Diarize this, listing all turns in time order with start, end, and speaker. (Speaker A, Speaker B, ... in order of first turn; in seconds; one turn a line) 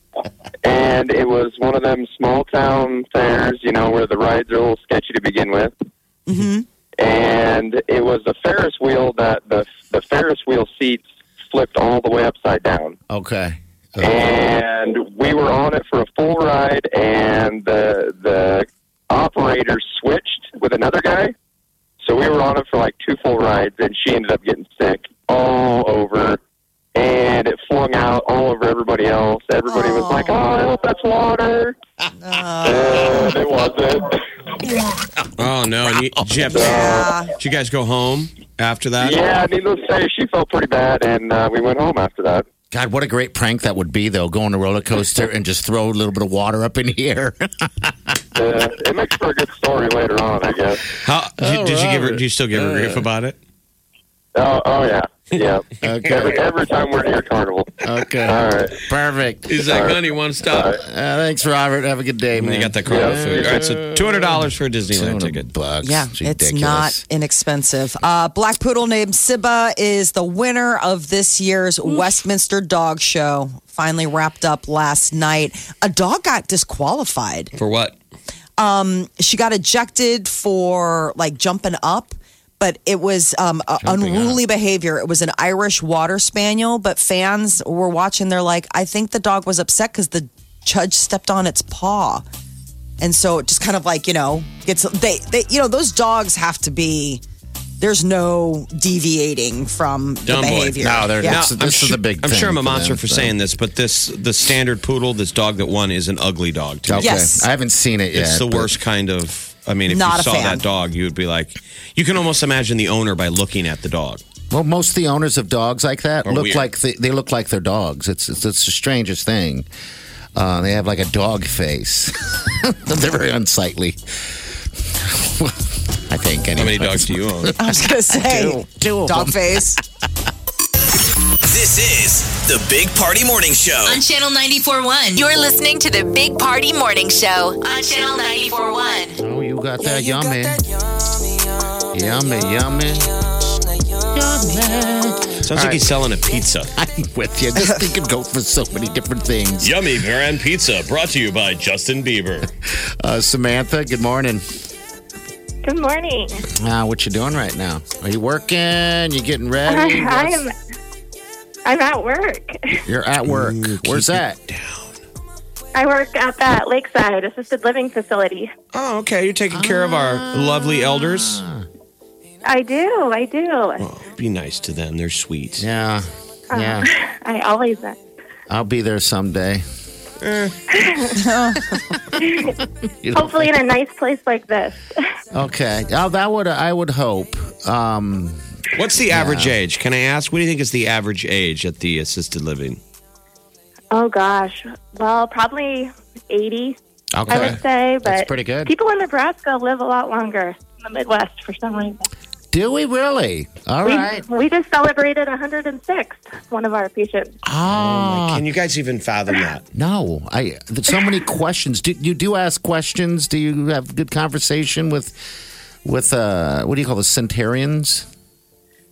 Speaker A: 0.6-5.7
Speaker B: 6.3-6.6
Speaker A: 7.0-13.0
Speaker C: 13.1-14.2
Speaker A: 14.0-21.3
Speaker A: 22.0-26.4
Speaker A: 26.9-31.8
Speaker B: 29.7-30.4
Speaker B: 32.2-33.0
Speaker A: 32.6-34.2
Speaker D: 35.4-39.2
Speaker C: 35.9-36.5
Speaker B: 36.5-37.3
Speaker A: 36.5-37.1
Speaker A: 39.0-42.5
Speaker C: 42.7-48.2
Speaker A: 48.4-50.8
Speaker D: 51.0-53.4
Speaker C: 51.4-53.0
Speaker A: 54.4-58.8
Speaker C: 55.8-56.4
Speaker C: 57.8-59.9
Speaker D: 59.5-60.8
Speaker A: 59.6-60.8
Speaker C: 60.6-67.0
Speaker D: 62.4-65.5
Speaker A: 62.9-63.6
Speaker B: 65.8-77.5
Speaker D: 77.5-78.0
Speaker B: 78.6-92.2
Speaker C: 83.8-84.4
Speaker B: 93.0-97.2
Speaker B: 97.8-101.4
Speaker D: 100.3-107.2
Speaker C: 100.8-103.4
Speaker C: 106.9-108.8
Speaker B: 107.0-107.5
Speaker D: 108.1-114.2
Speaker B: 109.9-110.6
Speaker C: 114.5-119.7
Speaker D: 116.2-116.7
Speaker C: 120.4-124.0
Speaker C: 124.8-129.8
Speaker D: 126.6-127.6
Speaker B: 127.6-129.8
Speaker E: 131.4-134.0
Speaker F: 133.9-139.2
Speaker C: 139.2-140.6
Speaker C: 141.9-143.1
Speaker C: 144.1-146.0
Speaker D: 145.4-146.7
Speaker C: 146.8-149.9
Speaker D: 149.6-152.5
Speaker C: 152.7-154.4
Speaker G: 155.6-156.4
Speaker C: 156.5-160.4
Speaker G: 159.7-160.5
Speaker G: 161.7-162.8
Speaker C: 162.8-164.4
Speaker D: 163.3-164.9
Speaker G: 165.8-168.5
Speaker D: 168.7-171.4
Speaker C: 169.5-171.7
Speaker G: 172.4-173.8
Speaker D: 173.8-175.7
Speaker C: 175.6-176.9
Speaker G: 176.5-178.0
Speaker C: 178.5-179.6
Speaker D: 180.2-180.6
Speaker G: 180.7-181.2
Speaker B: 181.2-181.8
Speaker G: 182.2-182.6
Speaker C: 182.8-183.6
Speaker G: 183.2-184.8
Speaker C: 185.3-188.4
Speaker D: 188.7-192.8
Speaker C: 189.1-189.6
Speaker G: 193.9-196.8
Speaker C: 197.1-198.7
Speaker G: 197.3-202.1
Speaker C: 202.5-204.3
Speaker G: 203.8-207.4
Speaker C: 207.4-208.4
Speaker D: 207.7-209.7
Speaker C: 209.7-215.2
Speaker C: 215.8-218.1